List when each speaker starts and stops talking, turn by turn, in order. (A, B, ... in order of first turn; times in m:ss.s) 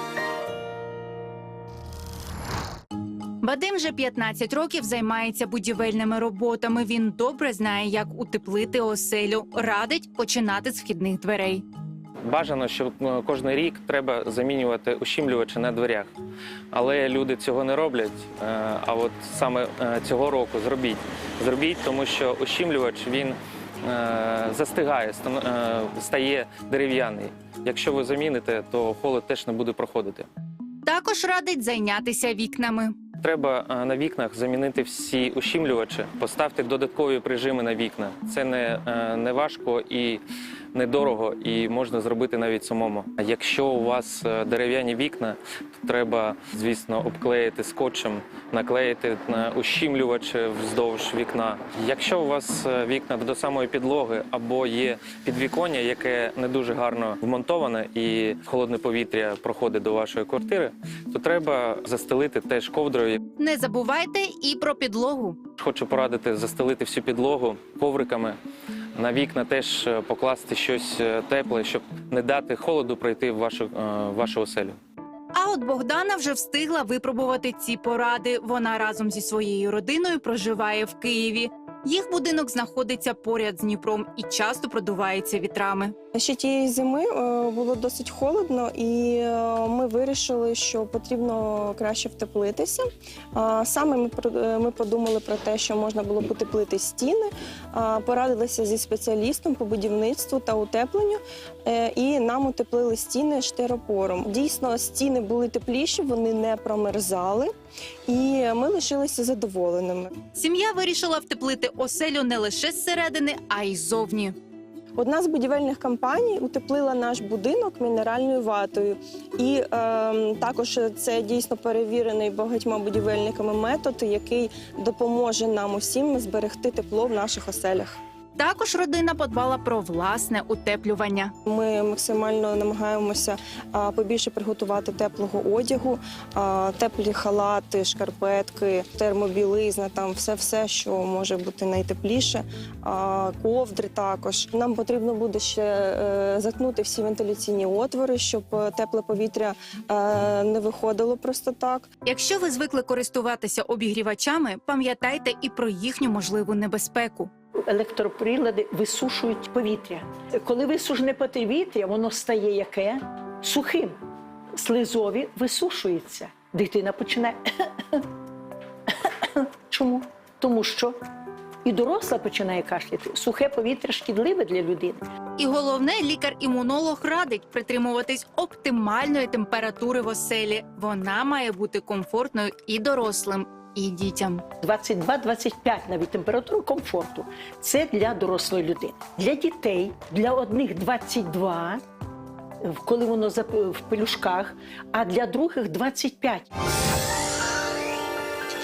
0:03.4-0:11.6 A
0:12.2-0:16.1 B
0:16.7-0:30.3 B
0:30.8-0:33.0 A
0:33.2-0:40.2 B
0:40.7-1:03.2 B
1:03.4-1:05.4 A
1:05.6-1:08.4 B
1:09.0-1:14.8 B
1:15.3-1:25.9 A
1:26.1-1:47.5 C
1:48.1-1:50.1 C
1:50.3-1:54.4 A
1:55.0-2:08.0 C
2:08.4-2:11.3 A
2:11.5-2:31.9 C
2:32.0-2:37.3 A
2:37.7-2:44.0 D
2:44.6-2:48.0 D
2:48.9-2:51.0 D
2:51.6-2:55.0 D
2:55.4-3:04.4 A
3:04.6-3:11.8 D
3:12.6-3:16.5 D